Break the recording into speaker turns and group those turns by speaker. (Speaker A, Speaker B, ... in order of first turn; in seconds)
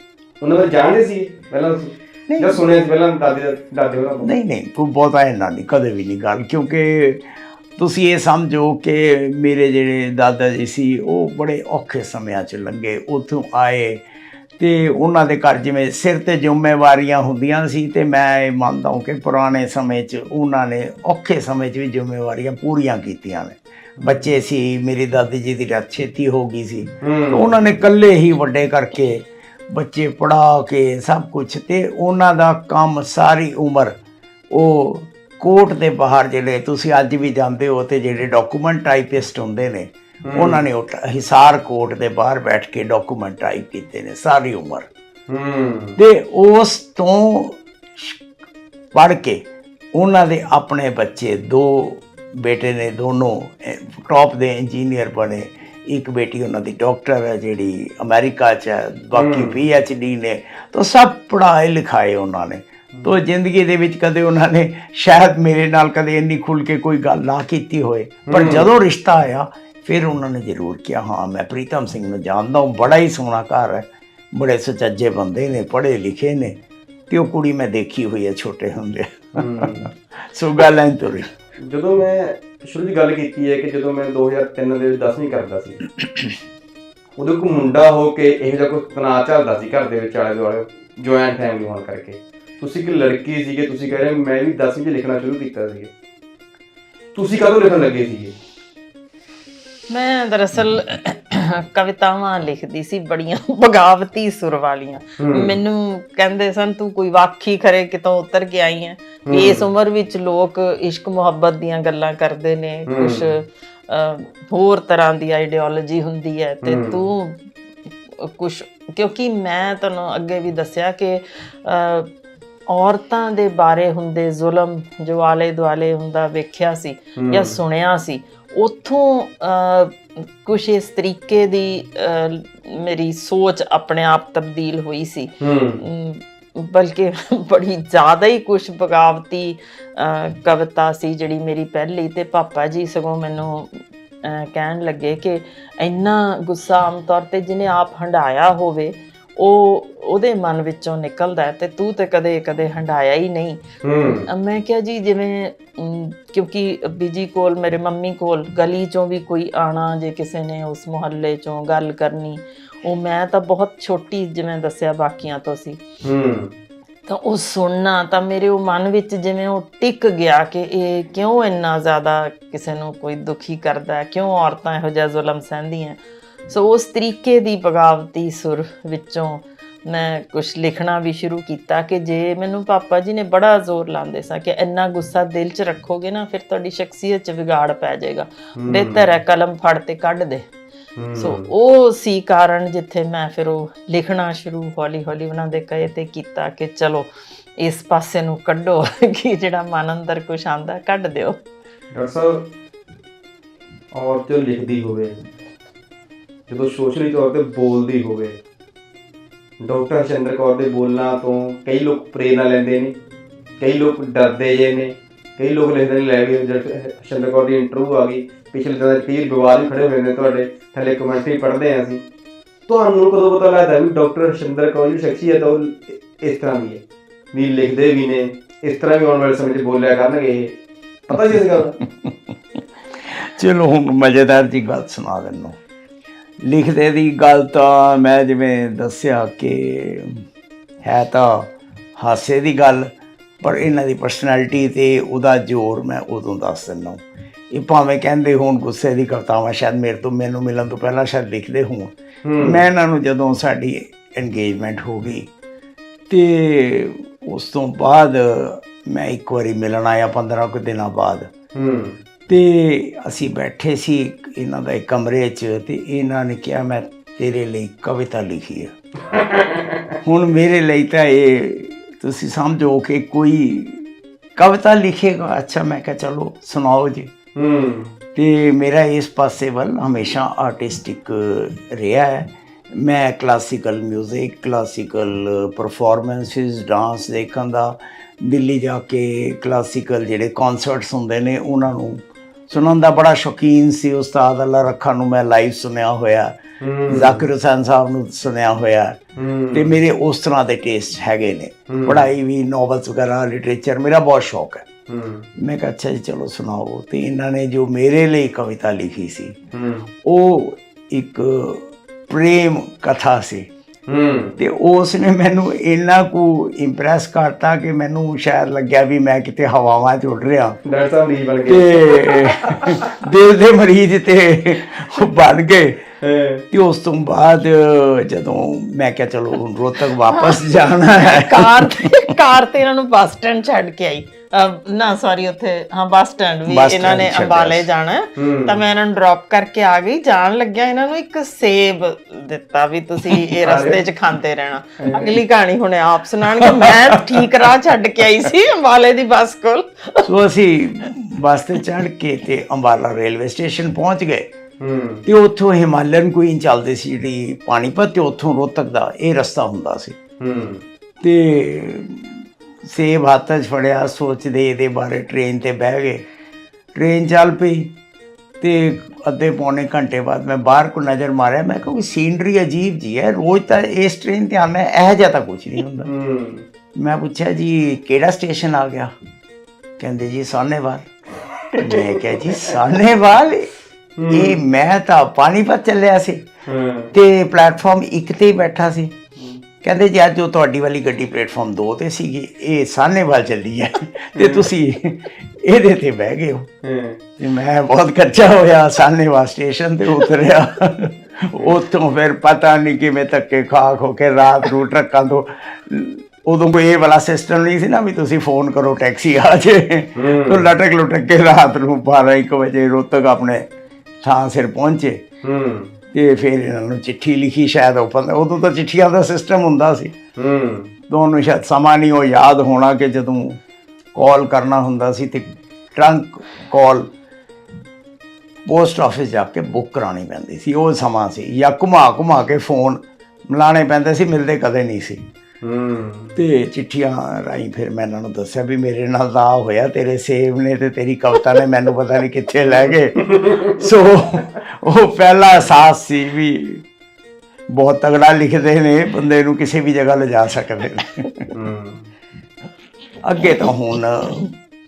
Speaker A: 0.4-4.3, 27.0-27.4, 40.2-40.6, 45.3-46.0, 59.1-59.5, 68.3-68.7, 79.3-79.9, 81.6-85.8, 87.2-95.9, 97.1-98.3, 105.2-105.5, 109.2-109.7, 112.9-113.3, 116.6-117.0, 127.2-127.6, 135.4-135.8, 153.8-154.3, 166.0-166.5, 188.6-189.1, 191.0-191.5, 201.9-202.5, 203.9-205.1, 206.5-208.4, 209.6-212.9, 213.6-222.0, 222.7-226.8, 227.3-230.5, 231.1-231.8, 252.2-252.6, 261.5-262.0, 269.1-269.9, 277.4-277.9, 296.6-297.2, 299.1-299.7, 301.7-302.0, 304.9-305.3, 309.5-309.9, 313.9-314.4, 320.6-322.8, 326.0-326.4, 338.2-338.6, 343.4-343.8, 344.8-345.2, 354.6-355.0, 360.2-360.6, 375.8-376.4, 382.1-382.6, 383.9-384.4, 386.4-386.9, 389.2-389.4, 394.1-394.5, 396.6-397.0, 409.9-410.4, 415.2-415.7, 420.1-420.7, 435.4-436.2, 442.6-443.6, 451.3-451.9
Speaker B: 2.3-2.6, 4.2-7.2, 7.8-14.0, 14.6-33.9, 34.5-44.9, 46.0-48.2, 48.9-49.4, 49.9-76.5, 77.1-81.3, 233.1-235.6, 236.4-240.2, 240.8-242.9, 243.4-247.0, 247.5-255.3, 256.1-261.3, 262.3-268.7, 270.0-277.1, 278.1-296.4, 296.9-299.0, 299.5-304.6, 305.4-309.3, 310.0-313.5, 314.4-320.6, 321.5-325.8, 326.5-331.9, 336.4-337.7, 346.4-347.5, 350.0-354.3, 355.1-360.0, 361.0-366.0, 366.7-367.7, 368.4-375.9, 376.8-378.9, 379.8-380.9, 381.6-383.5, 384.1-386.2, 386.9-388.9, 389.6-396.5, 397.2-413.4, 414.0-415.0, 415.9-419.9, 420.9-423.4, 423.9-426.9, 428.4-435.0, 436.1-446.6, 447.5-451.3, 453.0-454.3
Speaker C: 99.9-117.4, 118.2-122.1, 122.7-165.8, 167.1-190.5, 191.2-201.4, 330.1-330.5, 331.0-350.1